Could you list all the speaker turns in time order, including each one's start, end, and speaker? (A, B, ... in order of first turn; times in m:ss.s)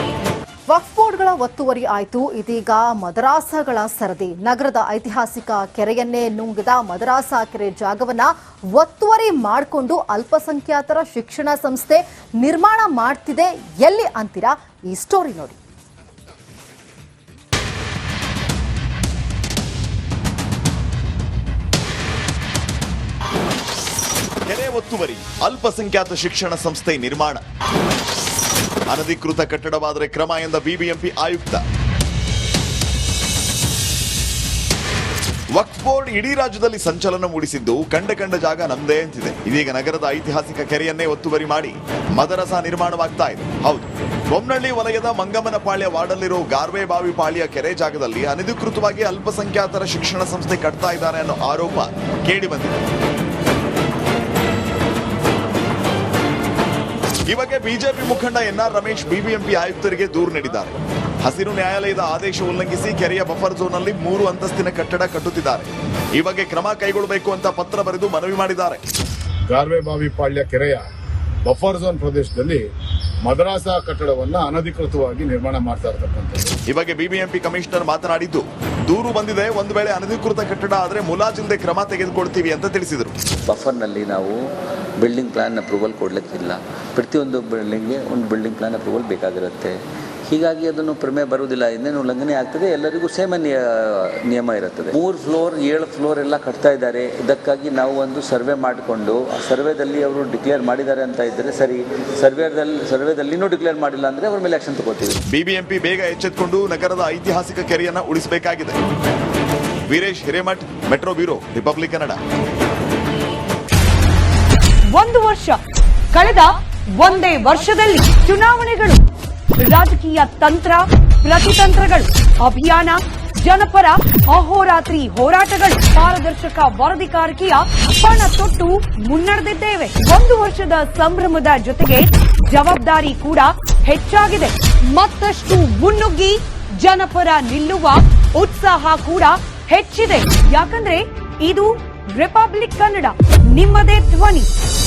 0:00.7-0:15.5 A
0:24.5-0:27.4 B
0:28.9-0:31.6 B
0:35.6-0:52.8 B
0:57.3-1:08.8 B
1:09.5-1:10.8 C
1:11.5-1:12.6 C
1:13.2-1:16.6 C
1:16.7-1:23.1 B
1:23.5-1:24.4 D
1:25.0-1:29.8 D
1:30.3-1:45.2 D
1:45.3-1:48.8 B
1:49.9-1:52.2 B
1:54.9-1:55.6 E
1:56.1-1:59.0 E
1:59.6-2:24.5 E